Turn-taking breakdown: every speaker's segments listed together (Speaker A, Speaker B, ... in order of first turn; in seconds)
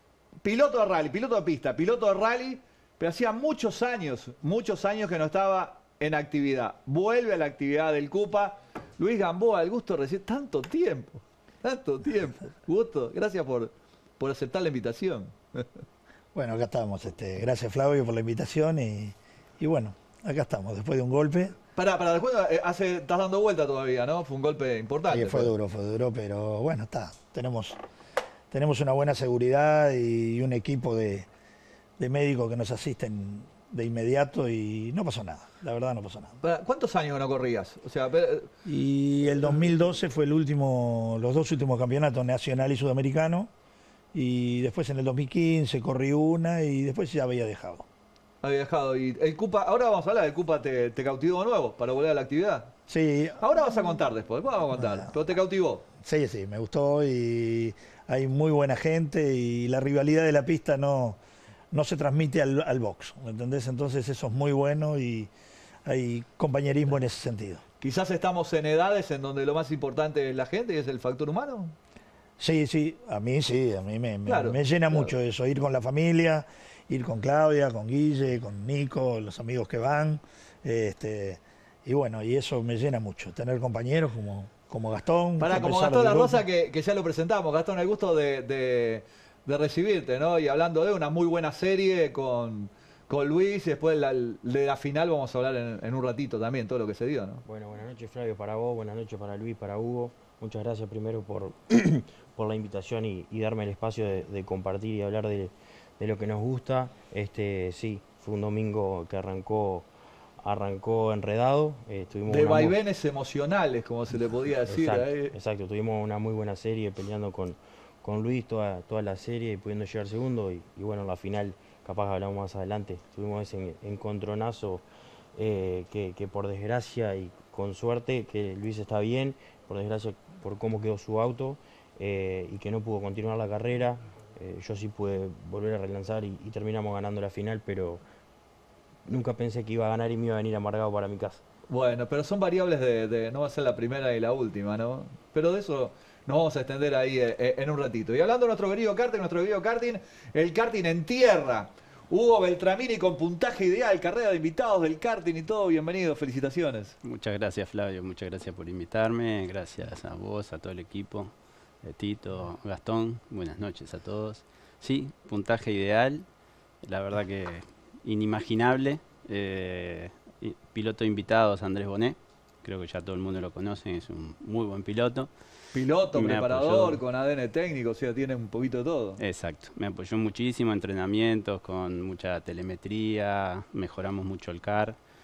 Speaker A: 0.4-15.7, 21.8-25.5, 36.4-38.5, 48.4-52.7, 53.4-55.8, 67.8-71.7, 74.2-75.1, 85.4-97.4, 112.3-115.3, 141.7-156.9, 175.7-179.2
Speaker B: 16.3-21.6, 25.1-27.8, 28.5-31.3, 32.0-36.4, 38.6-43.5, 44.1-47.9, 52.9-53.4, 56.0-61.2, 61.7-65.3, 65.8-67.6, 72.4-86.4
Speaker C: 97.4-109.9, 110.4-112.8, 114.7-124.8, 125.3-138.0, 139.1-141.4
Speaker D: 157.0-166.2, 166.8-175.3, 176.1-177.0, 179.2-185.0